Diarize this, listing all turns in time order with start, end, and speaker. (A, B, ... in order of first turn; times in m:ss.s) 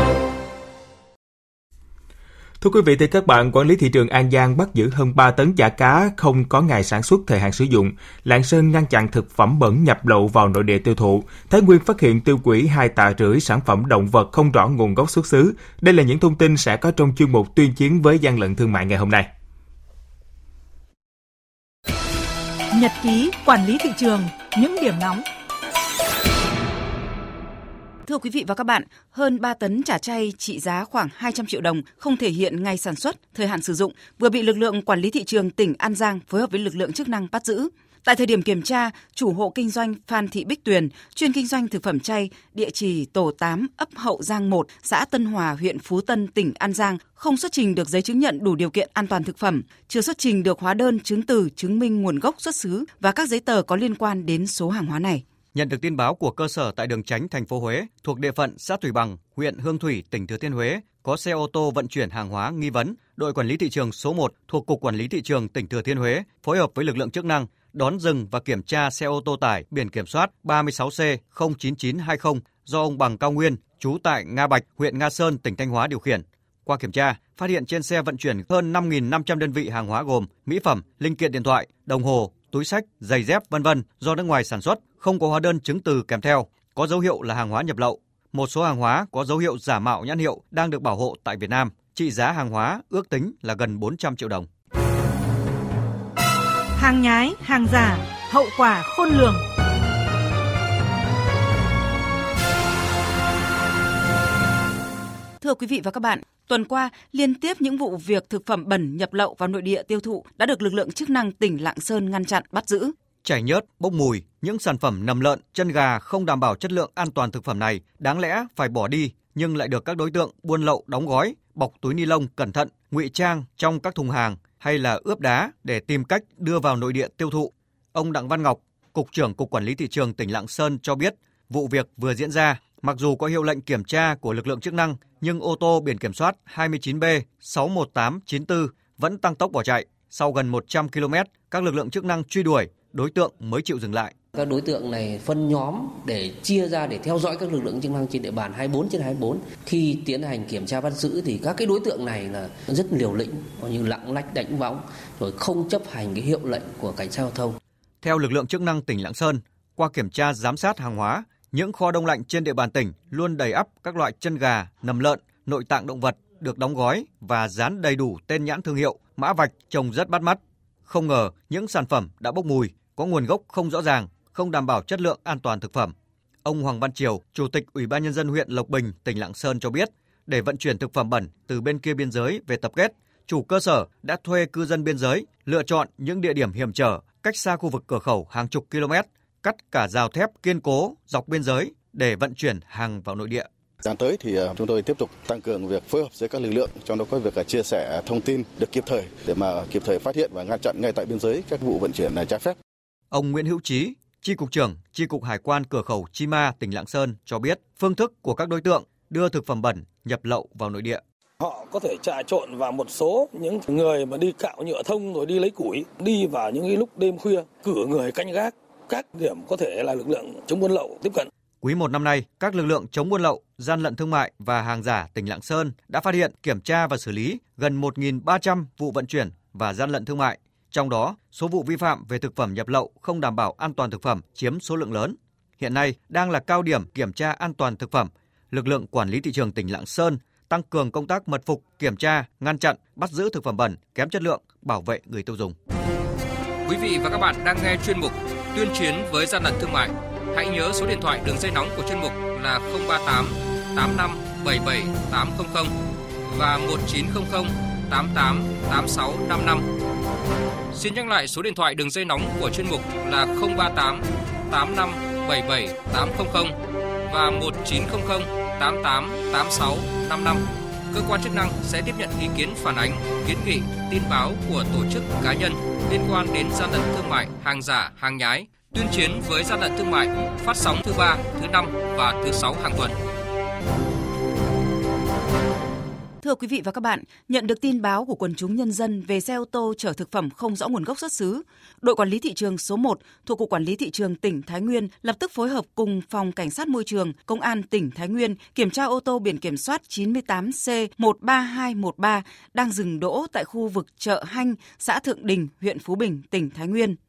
0:02.6-0:19.3 A
0:22.7-0:25.2 B
0:28.0-0:55.2 C
0:55.5-1:34.5 D
1:36.8-1:39.4 B
1:45.4-1:52.9 C
1:53.2-2:24.1 D
2:24.3-2:37.6 E
2:38.0-3:13.5 D
3:13.8-3:22.6 F
3:23.1-3:31.0 D
3:31.4-3:41.3 G
3:41.6-4:05.5 D
4:06.6-4:19.6 H
4:20.7-4:26.6 H
4:27.1-4:43.0 H
4:46.2-5:07.0 C